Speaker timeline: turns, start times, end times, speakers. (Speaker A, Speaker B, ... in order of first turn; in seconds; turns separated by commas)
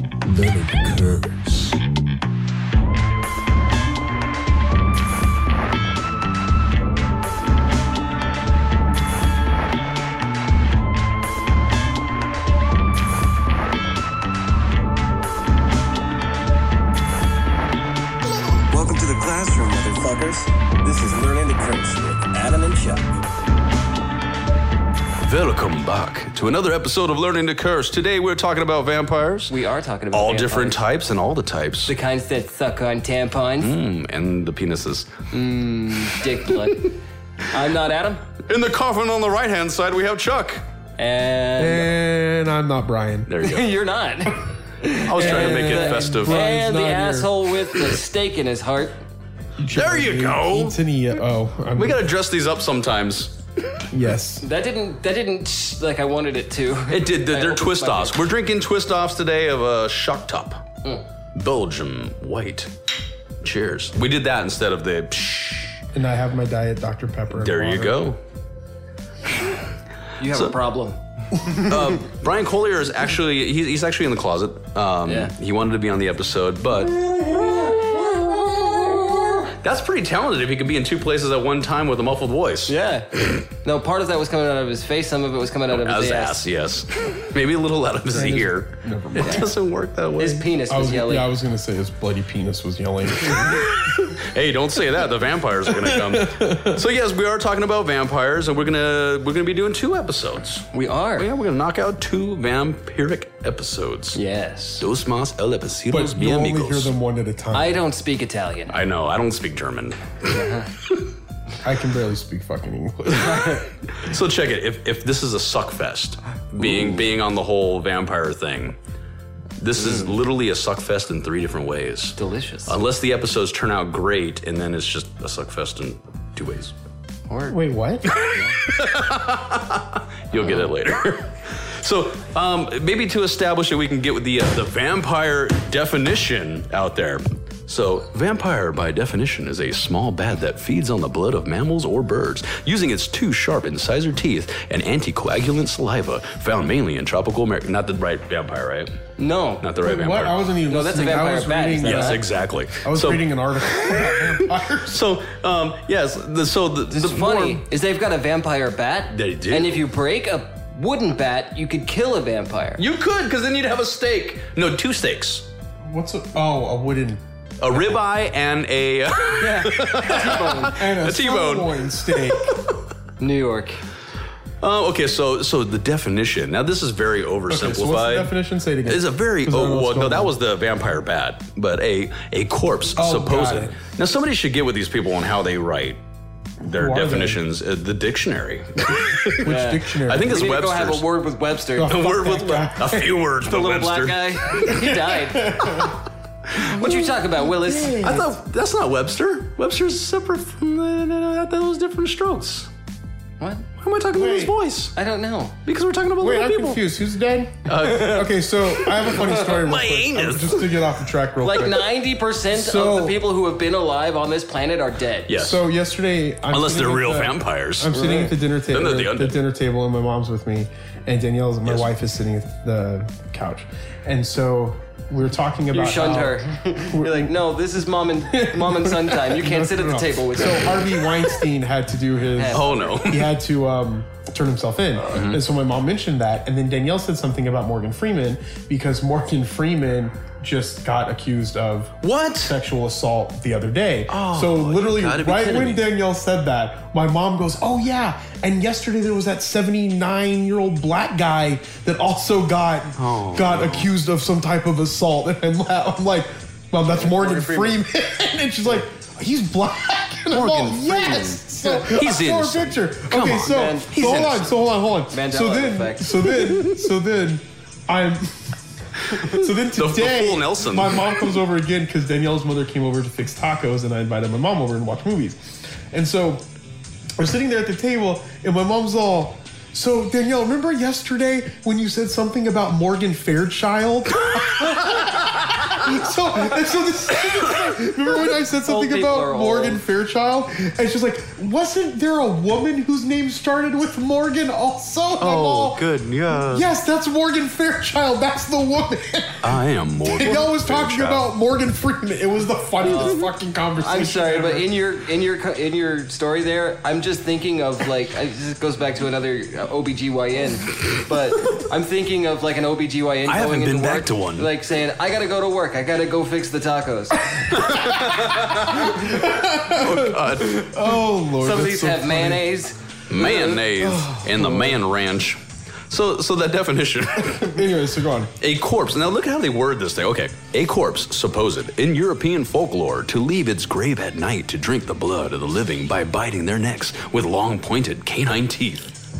Speaker A: 0.2-1.8, Speaker B: 18.5-23.1, Speaker A: 25.2-29.5, Speaker B: 29.5-30.8, Speaker A: 30.1-31.9, Speaker B: 31.9-33.7, Speaker A: 33.6-35.1, Speaker B: 35.3-37.0, Speaker B: 37.5-38.2, Speaker A: 38.4-40.6, Speaker B: 41.0-41.9, Speaker C: 41.6-43.3, Speaker A: 43.3-43.7, Speaker B: 43.4-49.0, Speaker A: 45.0-46.4, Speaker C: 45.1-47.3, Speaker C: 49.6-52.1, Speaker A: 49.7-50.8, Speaker A: 51.7-53.3, Speaker C: 53.9-54.4, Speaker B: 54.4-58.2, Speaker A: 56.9-60.6, Speaker A: 61.3-62.7, Speaker A: 63.4-65.8, Speaker C: 65.9-68.1, Speaker A: 67.3-68.2, Speaker B: 70.2-71.0, Speaker A: 70.3-70.5, Speaker A: 71.6-77.1, Speaker B: 75.0-75.3, Speaker B: 77.2-79.4, Speaker A: 79.4-82.7, Speaker B: 82.7-83.1, Speaker B: 83.6-86.4, Speaker A: 85.7-90.5, Speaker C: 88.1-89.5, Speaker B: 90.2-91.3, Speaker C: 90.7-94.2, Speaker A: 93.2-104.2, Speaker C: 95.7-96.8, Speaker B: 100.7-101.3, Speaker B: 104.1-104.8, Speaker A: 104.8-106.9, Speaker C: 105.9-107.8, Speaker B: 107.5-108.8, Speaker A: 108.7-110.2, Speaker B: 110.3-110.7, Speaker C: 111.6-113.7, Speaker B: 113.2-113.6, Speaker A: 113.9-118.8, Speaker A: 119.6-122.2, Speaker B: 119.8-120.1, Speaker B: 122.2-122.8, Speaker A: 122.7-126.7, Speaker B: 127.3-128.6, Speaker C: 127.5-128.1, Speaker A: 128.1-148.9, Speaker B: 149.2-149.7, Speaker A: 149.6-150.4, Speaker C: 149.8-155.0, Speaker B: 150.7-152.2, Speaker A: 151.8-157.6, Speaker B: 156.9-162.8, Speaker A: 159.1-159.8, Speaker A: 162.8-165.4, Speaker C: 165.9-167.2, Speaker A: 167.6-172.7, Speaker B: 169.4-170.8, Speaker C: 170.6-172.5, Speaker B: 173.2-173.8, Speaker A: 174.6-178.3, Speaker C: 177.5-180.4, Speaker A: 178.8-186.0, Speaker C: 182.9-183.7, Speaker A: 186.6-191.1, Speaker C: 186.7-187.4, Speaker C: 189.2-190.4, Speaker B: 189.4-192.1, Speaker C: 191.8-193.1, Speaker A: 191.8-195.1, Speaker B: 193.4-195.9, Speaker C: 195.3-196.0, Speaker A: 195.6-195.9, Speaker B: 196.5-198.1, Speaker C: 196.8-198.3, Speaker A: 197.9-202.7, Speaker B: 203.4-203.7, Speaker A: 203.8-204.9, Speaker C: 204.1-204.6, Speaker B: 204.9-205.5, Speaker A: 205.6-206.8, Speaker C: 206.2-211.9, Speaker A: 207.7-210.8, Speaker B: 211.4-215.3, Speaker C: 212.5-213.2, Speaker A: 215.3-215.6, Speaker C: 215.3-227.3, Speaker A: 216.5-218.2, Speaker B: 217.9-218.3, Speaker A: 218.7-219.4, Speaker A: 221.6-221.9, Speaker B: 225.7-231.2, Speaker C: 228.3-268.5, Speaker B: 232.3-233.0, Speaker A: 232.5-233.3, Speaker A: 235.1-235.4, Speaker A: 242.0-242.5, Speaker A: 244.1-245.9, Speaker A: 253.0-253.9, Speaker B: 256.9-257.8, Speaker A: 260.3-264.5, Speaker B: 263.5-263.9, Speaker B: 265.1-266.3, Speaker A: 269.1-271.3, Speaker C: 269.1-276.4, Speaker C: 277.2-304.7, Speaker B: 288.6-289.8, Speaker A: 295.2-296.7, Speaker A: 299.4-301.2, Speaker B: 302.8-303.2, Speaker B: 303.8-318.9, Speaker A: 313.2-314.5, Speaker A: 317.6-320.7, Speaker C: 318.9-322.5, Speaker B: 321.4-323.6, Speaker A: 323.1-325.4, Speaker C: 323.8-324.8, Speaker A: 325.9-327.7, Speaker C: 327.4-328.3, Speaker A: 328.4-338.9